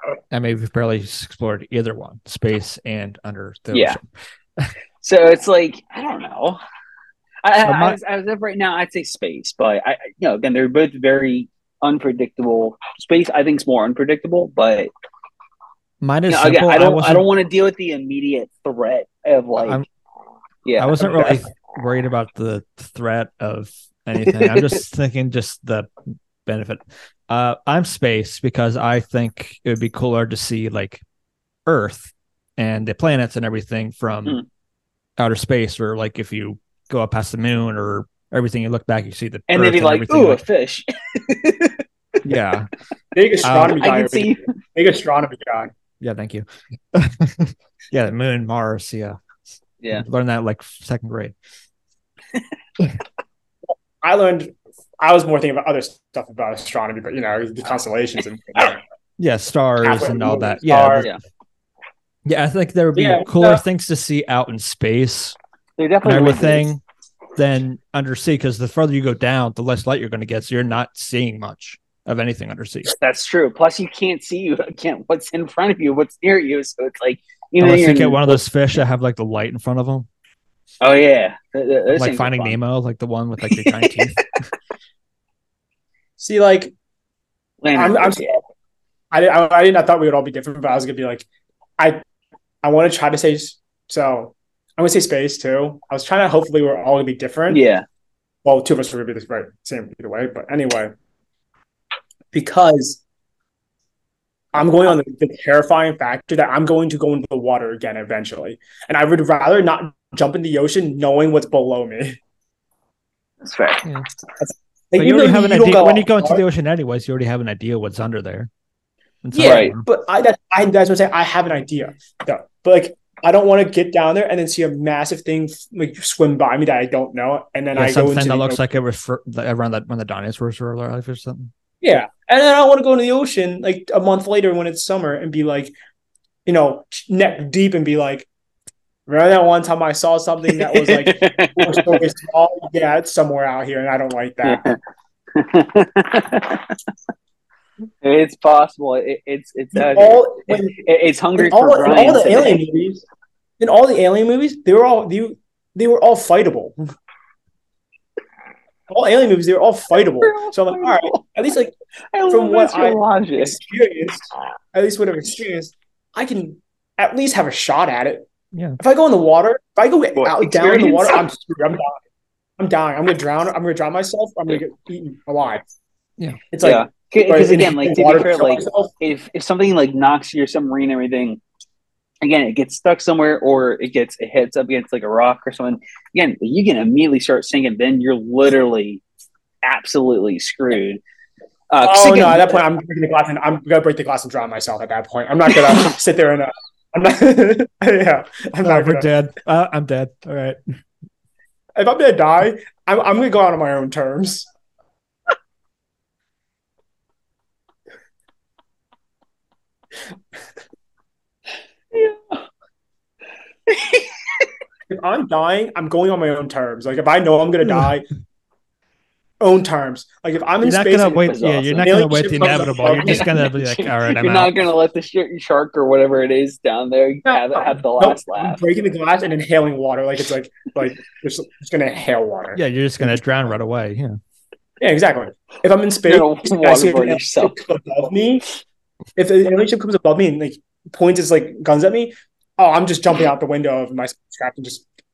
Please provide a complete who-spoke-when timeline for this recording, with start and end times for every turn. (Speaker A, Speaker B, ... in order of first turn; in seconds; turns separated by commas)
Speaker A: 0.3-4.0, Speaker B: 3.7-4.0, Speaker B: 5.0-6.6, Speaker B: 7.4-14.9, Speaker A: 7.6-8.0, Speaker A: 16.0-17.2, Speaker B: 16.3-19.8, Speaker A: 19.6-19.9, Speaker B: 20.6-21.4, Speaker A: 20.8-25.9, Speaker B: 24.3-24.8, Speaker A: 26.5-31.0, Speaker A: 31.7-34.4, Speaker A: 35.2-40.4, Speaker B: 39.5-41.8, Speaker A: 42.2-42.7, Speaker C: 43.1-45.7, Speaker A: 43.4-43.8, Speaker B: 43.6-44.5, Speaker A: 46.0-51.4, Speaker C: 54.0-58.8, Speaker A: 59.2-61.1, Speaker C: 59.8-61.1, Speaker A: 62.2-65.4, Speaker C: 62.9-63.6, Speaker B: 65.8-66.7, Speaker A: 66.0-66.8, Speaker A: 67.4-72.9, Speaker B: 72.9-78.4, Speaker A: 77.6-80.1, Speaker B: 80.8-82.6, Speaker A: 82.0-84.3, Speaker B: 83.4-84.1, Speaker C: 86.2-86.7, Speaker B: 87.6-88.4, Speaker C: 87.7-88.4, Speaker C: 89.1-91.3, Speaker C: 92.6-97.6, Speaker B: 97.5-97.8, Speaker C: 98.5-101.0, Speaker C: 102.3-103.0, Speaker C: 104.5-112.2, Speaker B: 113.4-113.9, Speaker C: 114.4-116.4, Speaker A: 115.0-118.5, Speaker A: 119.2-119.8, Speaker C: 119.3-128.6, Speaker B: 119.4-119.8, Speaker A: 127.7-131.5, Speaker C: 131.8-135.7, Speaker C: 136.5-138.3, Speaker C: 139.1-144.8, Speaker B: 140.5-141.9, Speaker B: 144.4-144.8, Speaker B: 145.3-146.9, Speaker B: 148.0-152.6, Speaker C: 149.7-150.8, Speaker C: 151.4-153.0, Speaker C: 153.6-156.8, Speaker C: 158.9-161.7, Speaker B: 160.2-161.2, Speaker B: 162.1-163.6, Speaker C: 162.3-172.0, Speaker A: 168.5-168.8, Speaker B: 170.2-171.2, Speaker C: 172.6-175.7, Speaker C: 176.5-178.9, Speaker B: 176.6-181.4, Speaker B: 182.2-189.0, Speaker B: 189.6-191.0, Speaker B: 191.7-192.6, Speaker C: 191.8-199.1, Speaker A: 198.7-200.6, Speaker C: 201.8-204.5, Speaker B: 211.9-212.4, Speaker B: 213.7-214.5, Speaker C: 214.9-218.1, Speaker C: 219.4-223.3, Speaker A: 220.6-224.5, Speaker B: 221.2-228.6, Speaker C: 227.2-233.2, Speaker A: 232.6-234.2, Speaker C: 234.8-238.4, Speaker B: 236.1-237.6, Speaker C: 239.2-244.8